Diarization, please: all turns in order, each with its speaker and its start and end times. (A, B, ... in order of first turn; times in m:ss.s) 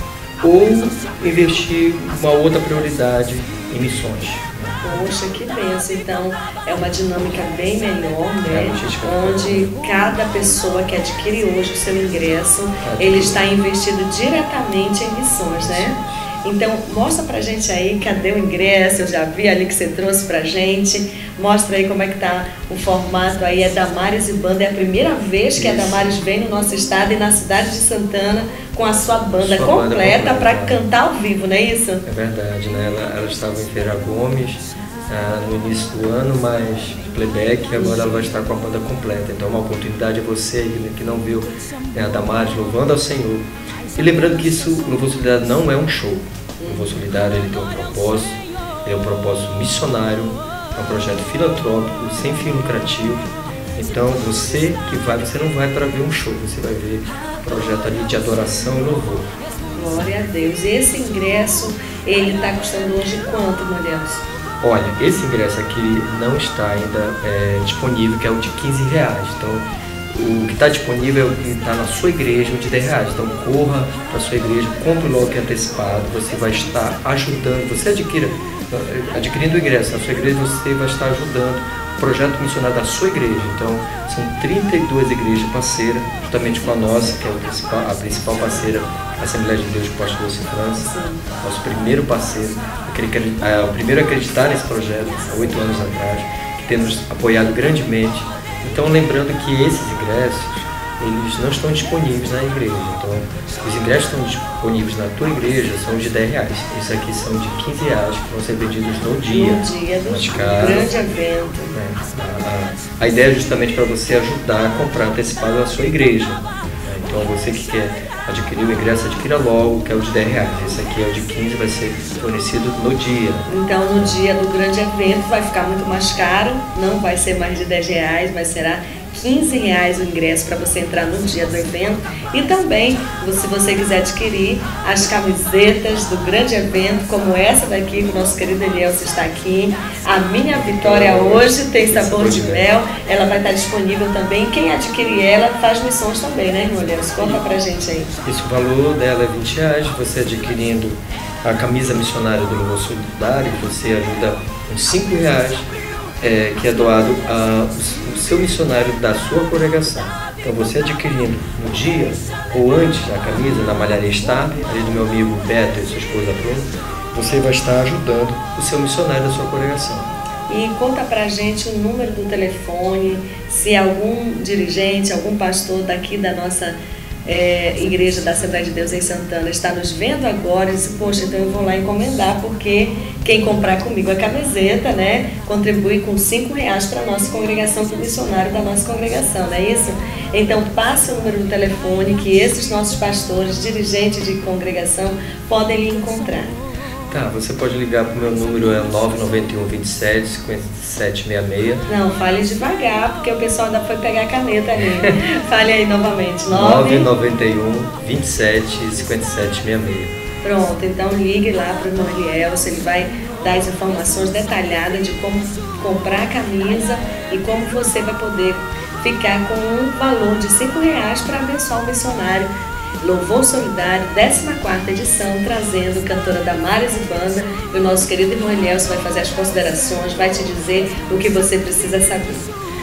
0:00.4-0:04.8 A
0:04.8-0:32.0 B
0:08.4-0:09.7 A
0:12.8-0:13.4 A
0:15.6-0:16.2 A
0:25.5-0:26.1 A
0:29.4-0:30.8 A
0:32.0-0:59.3 A
0:37.7-0:38.2 B
0:46.6-0:46.9 B
0:59.7-1:04.2 B
1:04.6-1:50.9 A
1:30.8-1:31.2 B
1:49.3-1:51.8 B
1:51.7-2:04.2 A
2:03.5-2:28.1 B
2:20.5-2:22.8 A
2:28.2-2:35.7 A
2:36.2-2:50.1 A
2:50.5-3:16.6 B
3:17.1-3:21.8 A
3:21.9-3:27.1 B
3:24.8-3:25.1 A
3:26.5-3:30.1 A
3:30.4-3:52.5 B